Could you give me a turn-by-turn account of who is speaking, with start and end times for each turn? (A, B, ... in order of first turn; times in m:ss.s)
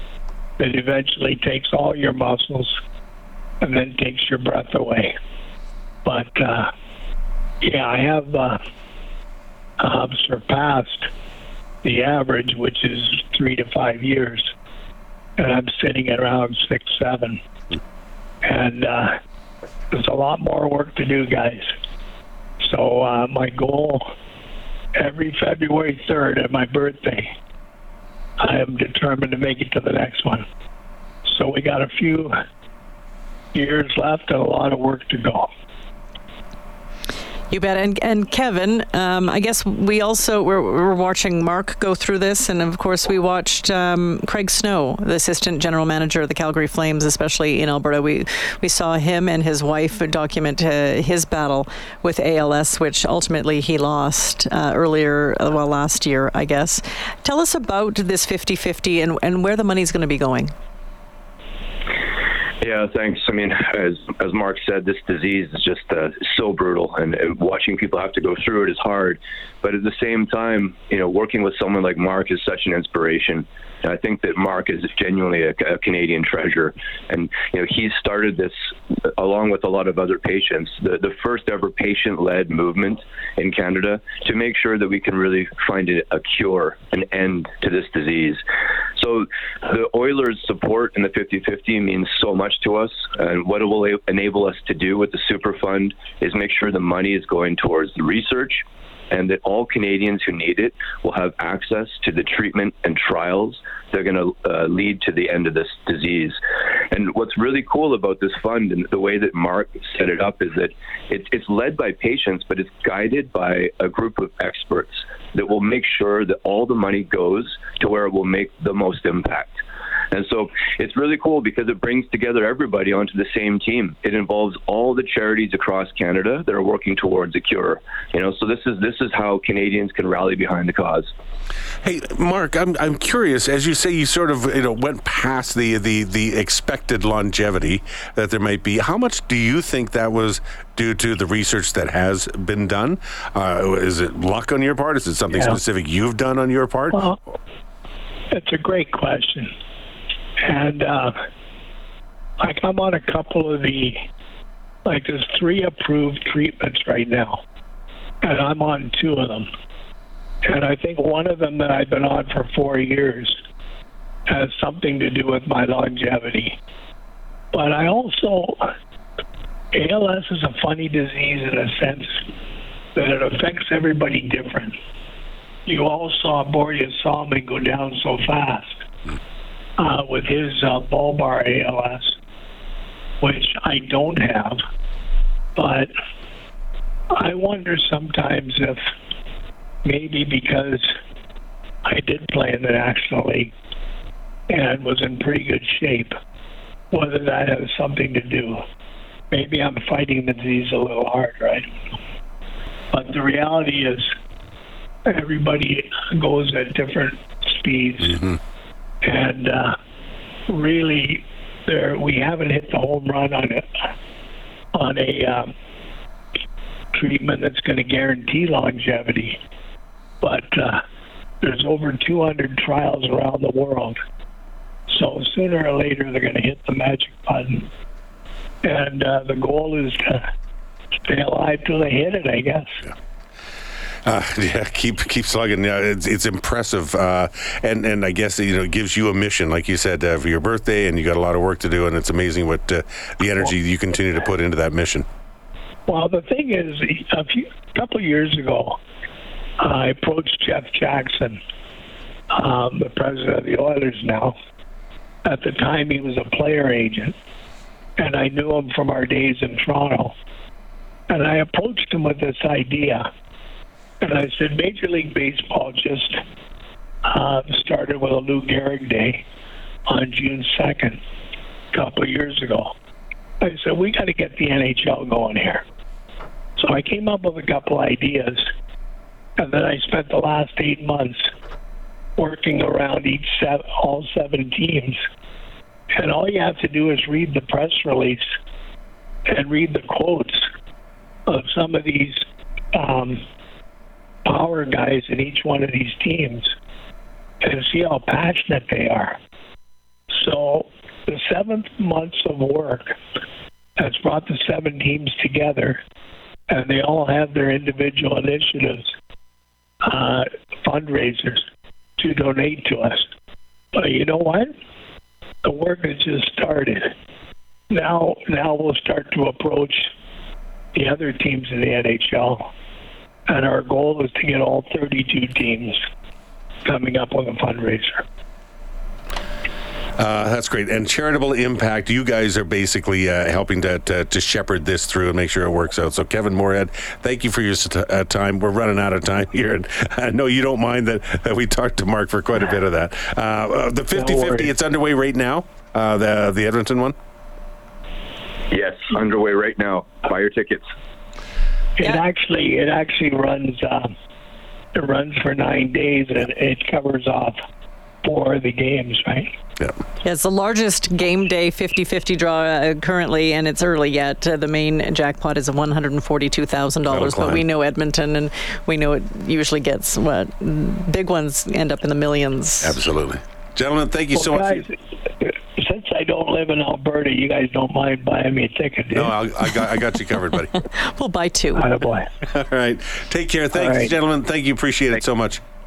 0:00.6-0:02.8 A
0:03.6-0:05.1 A
0:06.0-0:06.7 A
0:07.6-0:08.6 A
0:09.8-0:11.1 A
0:11.8-0:14.5 A
0:15.4-0:17.4 A
0:18.4-0:19.1 A
0:19.9-0:21.7 A
0:22.6-0:24.0 A
0:24.9-0:27.3 A
0:28.4-0:30.4 A
0:31.2-0:32.3 A
0:33.5-0:35.5 A
0:37.5-1:00.5 B
1:02.6-1:28.4 C
1:29.0-1:46.4 C
1:46.9-1:59.6 C
2:00.1-2:11.1 C
2:11.8-2:27.0 D
2:25.3-2:25.6 A
2:28.3-2:29.5 A
2:30.4-2:31.1 A
2:32.4-2:34.0 A
2:34.8-2:37.4 A
2:38.2-2:39.5 A
2:40.4-2:43.4 A
2:44.3-2:46.6 A
2:47.5-2:48.6 A
2:49.7-2:52.2 A
2:52.9-2:54.7 A
2:55.6-2:58.8 A
2:59.8-3:02.2 A
3:03.2-3:04.6 A
3:05.6-3:05.9 A
3:07.1-3:08.8 A
3:09.8-3:10.9 A
3:11.8-3:13.5 A
3:14.5-3:16.1 A
3:16.9-3:18.6 A
3:19.3-3:21.8 A
3:22.9-3:24.1 A
3:25.0-3:28.2 A
3:28.0-3:28.4 D
3:29.0-3:29.7 A
3:30.5-3:33.9 A
3:34.7-3:35.5 A
3:36.9-3:39.4 A
3:40.2-3:40.8 A
3:41.4-3:44.0 A
3:44.9-3:47.7 A
3:48.6-3:50.2 A
3:51.1-3:52.8 A
3:54.0-4:05.0 D
4:05.9-4:08.8 A
4:09.6-4:11.4 A
4:12.3-4:14.3 A
4:15.2-4:17.1 A
4:18.0-4:20.1 A
4:21.1-4:23.0 A
4:24.0-4:26.2 A
4:27.0-4:29.2 A
4:29.9-4:31.0 A
4:31.7-4:32.7 A
4:33.4-4:35.6 A
4:36.6-4:38.4 A
4:39.4-4:41.3 A
4:42.2-4:45.0 A
4:45.9-4:48.2 A
4:49.3-4:50.5 A
4:51.3-4:53.2 A
4:54.2-4:56.5 A
4:57.4-4:59.2 A
5:00.1-5:03.0 A
5:03.8-5:05.8 A
5:06.5-5:08.9 A
5:09.8-5:11.4 A
5:12.0-5:13.1 A
5:13.7-5:14.5 A
5:15.4-5:16.9 A
5:17.7-5:19.9 A
5:20.7-5:22.5 A
5:23.3-5:25.8 A
5:26.6-5:28.0 A
5:30.0-5:47.0 D
5:43.9-5:44.5 A
5:48.5-5:50.6 C
5:51.8-5:53.9 A
5:54.7-5:57.4 A
5:58.0-5:59.3 A
6:00.0-6:12.8 B
6:06.9-6:07.4 D
6:12.6-6:14.6 D
6:14.1-6:19.1 A
6:18.9-6:20.5 D
6:20.1-6:21.7 B
6:21.6-6:22.1 A
6:22.3-6:25.4 D
6:23.5-6:23.9 A